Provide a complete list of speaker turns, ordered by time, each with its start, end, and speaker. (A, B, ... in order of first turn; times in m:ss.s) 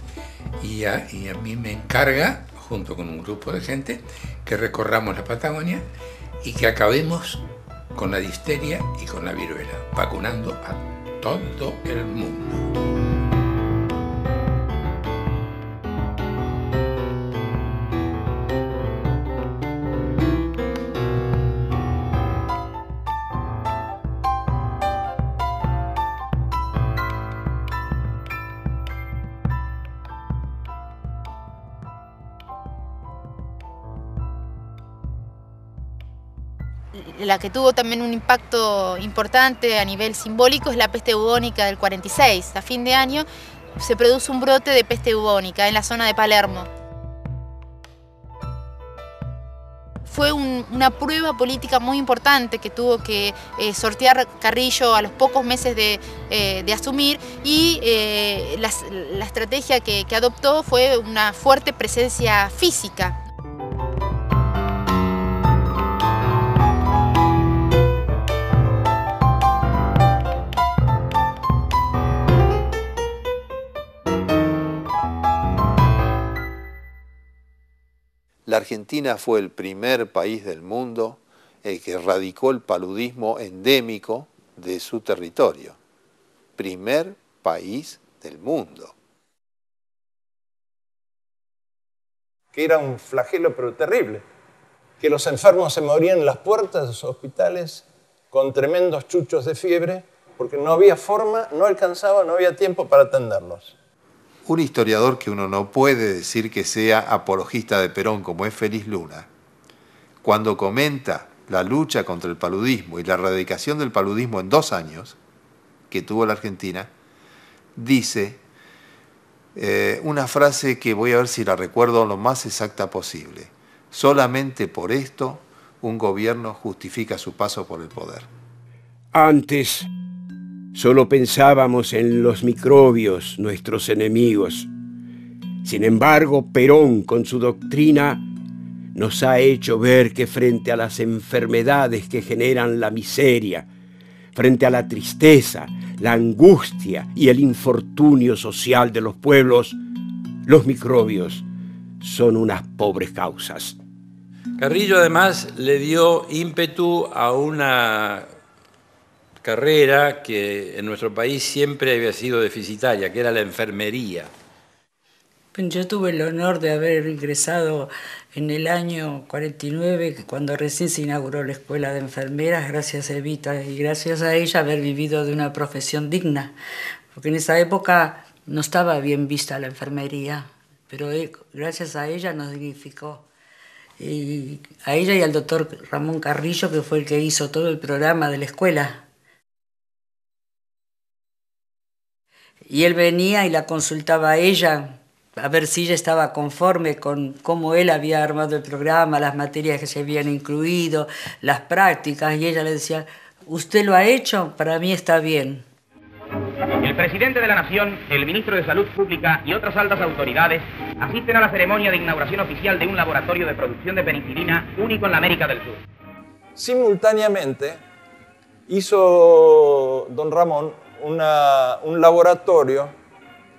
0:00.6-0:05.8 A
0:06.4-0:07.4 A
0:07.9-0:12.7 A
0:36.9-0:46.7 B
0:50.1-1:03.2 B
1:18.4-1:25.8 C
1:26.6-1:28.9 C
1:32.5-1:34.2 D
1:35.0-1:43.8 D
1:44.4-1:49.3 C
1:50.2-1:55.2 C
1:55.9-1:56.9 C
1:57.8-1:58.4 C
1:59.5-2:08.3 C
2:09.1-2:09.9 E
2:10.7-2:14.7 E
2:15.6-2:18.3 E
2:18.9-2:23.7 E
2:24.3-2:29.8 E
2:30.4-2:31.4 E
2:32.0-2:33.8 E
2:34.6-2:38.3 F
2:39.4-2:44.3 F
2:45.5-2:56.5 G
2:57.1-3:03.2 G
3:04.0-3:09.0 G
3:12.6-3:25.6 G
3:26.8-3:35.8 H
3:36.6-3:37.8 D
3:38.7-3:43.0 D